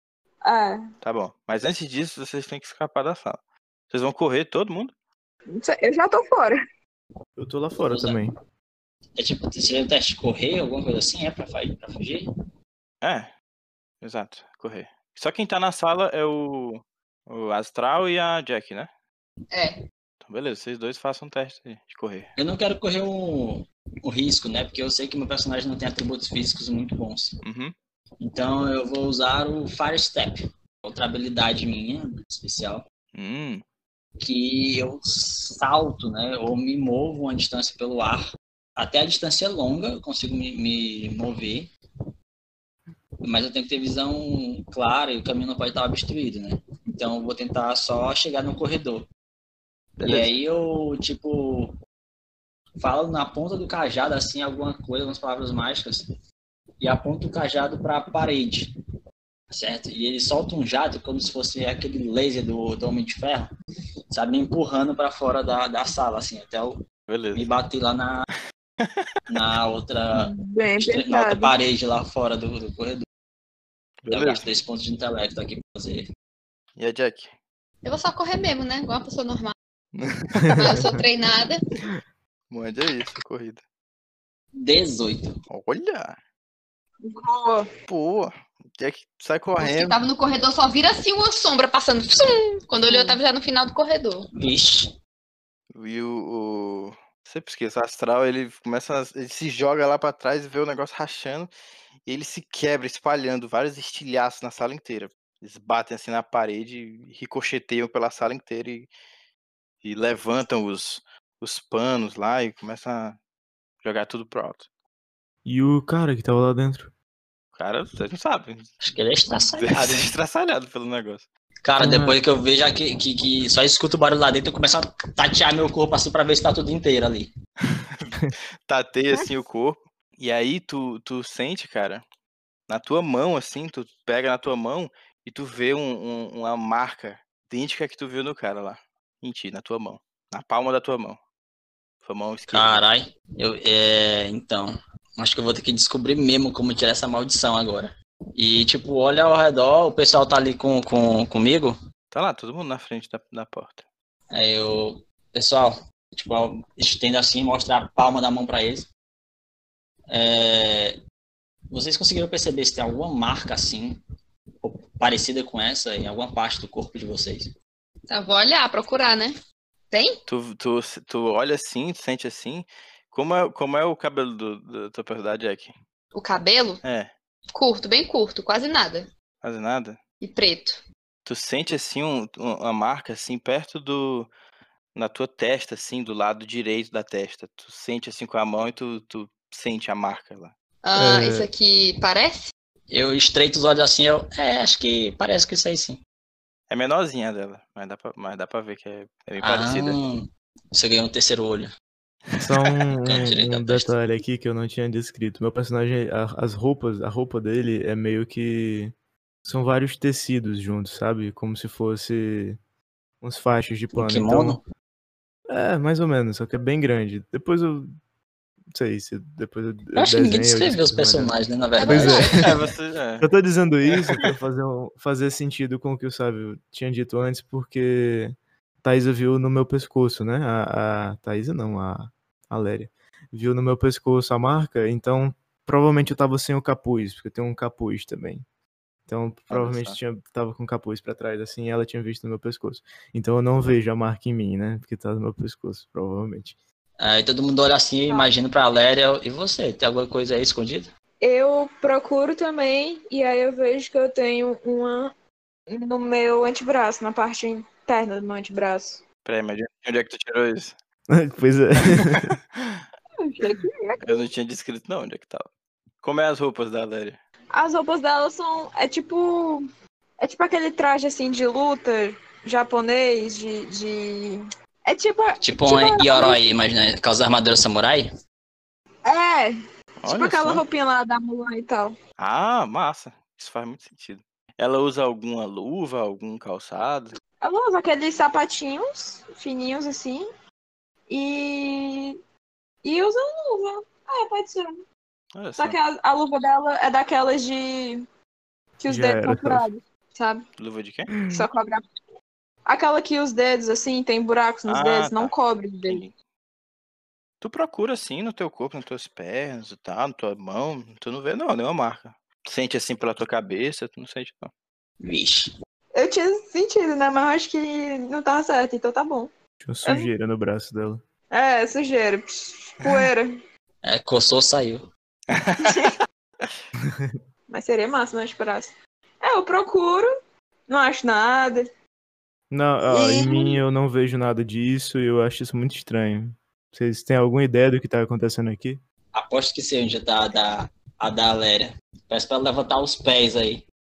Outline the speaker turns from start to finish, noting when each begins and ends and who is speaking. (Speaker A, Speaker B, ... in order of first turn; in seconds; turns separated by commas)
Speaker A: 0.4-0.8, Speaker B: 1.0-4.9, Speaker A: 5.5-6.5, Speaker C: 7.3-8.3, Speaker D: 7.8-8.2, Speaker D: 9.2-12.3, Speaker B: 13.0-13.3, Speaker B: 14.0-18.9, Speaker E: 19.5-19.8, Speaker B: 20.2-22.3, Speaker D: 22.4-27.4, Speaker B: 27.4-27.7, Speaker D: 28.2-32.8, Speaker B: 33.1-33.6, Speaker D: 34.2-41.7, Speaker D: 43.2-49.1, Speaker B: 50.0-50.3, Speaker D: 50.0-51.7, Speaker D: 52.8-56.1, Speaker D: 56.8-58.7, Speaker D: 59.5-63.5, Speaker D: 64.1-66.8, Speaker B: 67.1-67.4, Speaker D: 67.3-68.3, Speaker B: 68.8-69.1, Speaker D: 69.3-73.0, Speaker A: 70.1-71.5, Speaker B: 74.0-74.5, Speaker D: 74.1-76.1, Speaker B: 76.8-77.3, Speaker E: 77.8-79.5, Speaker B: 79.9-80.9, Speaker C: 80.4-81.0, Speaker E: 80.5-81.6, Speaker B: 82.5-83.6, Speaker D: 84.5-85.4, Speaker B: 85.5-86.2, Speaker A: 87.0-87.7, Speaker B: 87.9-90.0, Speaker E: 89.6-94.3, Speaker D: 94.3-94.9, Speaker B: 95.7-101.5, Speaker B: 102.0-108.9, Speaker B: 109.8-113.2, Speaker B: 113.8-114.7, Speaker C: 115.4-116.9, Speaker B: 117.5-121.3, Speaker D: 118.8-120.1, Speaker D: 121.6-127.3, Speaker C: 121.8-122.2, Speaker B: 127.7-128.1, Speaker B: 128.7-132.0, Speaker B: 132.7-141.2, Speaker B: 142.0-142.8, Speaker D: 142.5-151.8, Speaker B: 152.1-153.8, Speaker D: 154.3-158.9, Speaker D: 160.1-161.0, Speaker D: 161.7-164.0, Speaker D: 164.6-167.5, Speaker E: 168.1-169.3, Speaker E: 169.9-170.2, Speaker B: 170.3-175.7, Speaker E: 176.1-176.8, Speaker B: 176.8-177.1, Speaker E: 177.5-179.1, Speaker B: 179.4-180.0, Speaker E: 180.2-180.8, Speaker B: 181.2-184.3, Speaker B: 184.9-190.5, Speaker E: 190.8-192.5, Speaker C: 190.9-191.5, Speaker D: 192.9-196.0, Speaker B: 196.7-200.0, Speaker D: 199.4-201.7, Speaker C: 202.4-208.9, Speaker D: 203.0-203.9, Speaker C: 209.4-212.6, Speaker C: 213.2-214.6, Speaker D: 213.9-214.6, Speaker C: 215.5-217.9, Speaker C: 218.7-222.5, Speaker D: 219.9-222.4, Speaker E: 221.8-222.5, Speaker B: 222.3-223.3, Speaker C: 223.2-238.4, Speaker B: 223.9-224.2, Speaker C: 239.1-246.6, Speaker B: 239.5-240.0, Speaker D: 247.0-250.9, Speaker A: 251.2-255.1, Speaker A: 255.7-259.0, Speaker B: 259.2-260.7, Speaker C: 261.1-262.3, Speaker B: 261.9-262.8, Speaker A: 263.2-264.3, Speaker B: 264.0-265.5, Speaker B: 266.0-267.2, Speaker A: 267.5-269.6, Speaker A: 270.2-276.4, Speaker D: 275.4-278.1, Speaker A: 279.1-281.9, Speaker B: 280.0-280.6, Speaker B: 282.2-287.1, Speaker A: 287.4-290.2, Speaker A: 291.1-292.1, Speaker A: 292.8-294.8, Speaker B: 295.3-295.8, Speaker A: 295.6-298.0, Speaker A: 298.8-300.4, Speaker C: 298.9-299.7, Speaker B: 300.6-301.1, Speaker C: 301.2-301.4, Speaker A: 301.3-301.8, Speaker A: 302.6-306.0, Speaker B: 304.7-305.3, Speaker B: 305.9-306.1, Speaker B: 307.4-314.5, Speaker D: 315.0-315.5, Speaker A: 315.9-319.3, Speaker C: 319.6-321.0, Speaker A: 321.3-323.3, Speaker D: 323.8-324.9, Speaker B: 325.3-325.9, Speaker A: 325.6-325.9, Speaker A: 327.5-330.1, Speaker A: 330.7-331.6, Speaker C: 332.5-338.8, Speaker A: 332.9-333.6, Speaker D: 339.1-343.6